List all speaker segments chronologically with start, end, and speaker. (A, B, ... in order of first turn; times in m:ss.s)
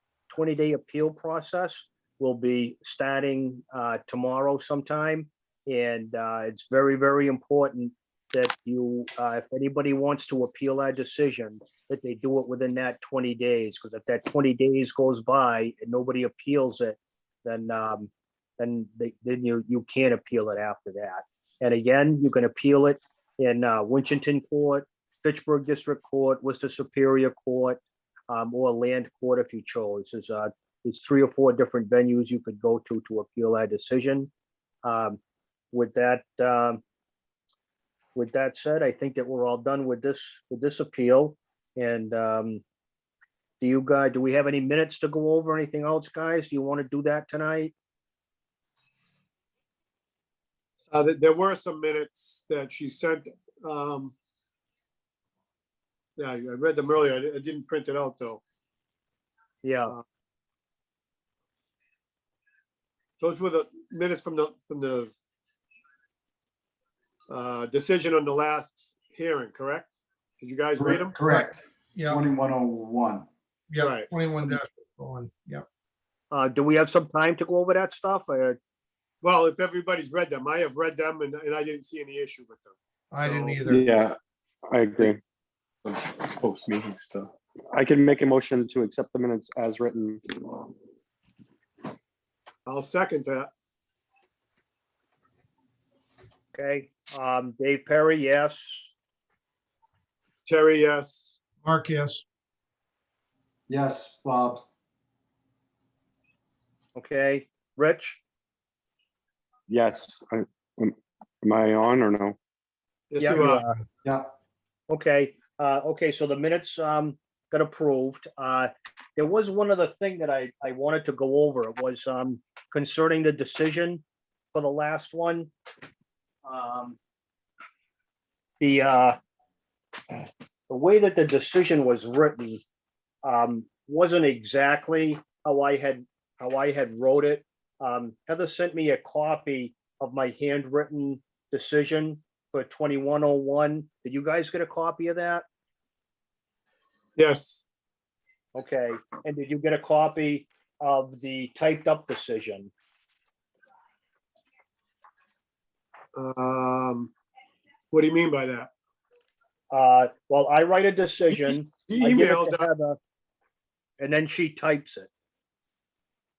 0:00.3-0:34.3 A
0:34.8-0:35.2 A
0:35.7-0:36.8 A
0:38.1-0:42.6 A
0:43.6-0:47.7 A
0:50.9-0:54.1 B
0:56.2-0:58.4 B
0:59.6-0:59.9 A
1:03.2-1:05.1 B
1:07.3-1:11.1 B
1:10.8-1:13.3 C
1:11.2-1:12.2 D
1:13.7-1:15.6 D
1:13.8-1:14.1 B
1:16.3-1:18.6 A
1:19.2-1:23.6 B
1:23.1-1:23.8 D
1:23.6-1:25.2 E
1:25.8-1:30.7 E
1:32.6-1:33.5 B
1:36.5-1:38.9 A
1:40.4-1:41.4 B
1:41.6-1:42.2 D
1:43.7-1:44.6 C
1:47.0-1:48.2 A
1:49.7-1:52.4 E
1:53.1-1:53.6 B
1:53.2-1:53.8 A
1:54.9-2:05.5 A
2:06.4-2:07.0 A
2:08.6-2:09.2 A
2:10.1-2:12.6 A
2:13.2-2:25.4 A
2:27.2-2:27.7 B
2:28.5-2:32.7 A
2:36.1-2:37.1 B
2:37.9-2:38.7 B
2:39.7-2:43.0 A
2:41.9-2:42.6 B
2:44.0-2:45.1 A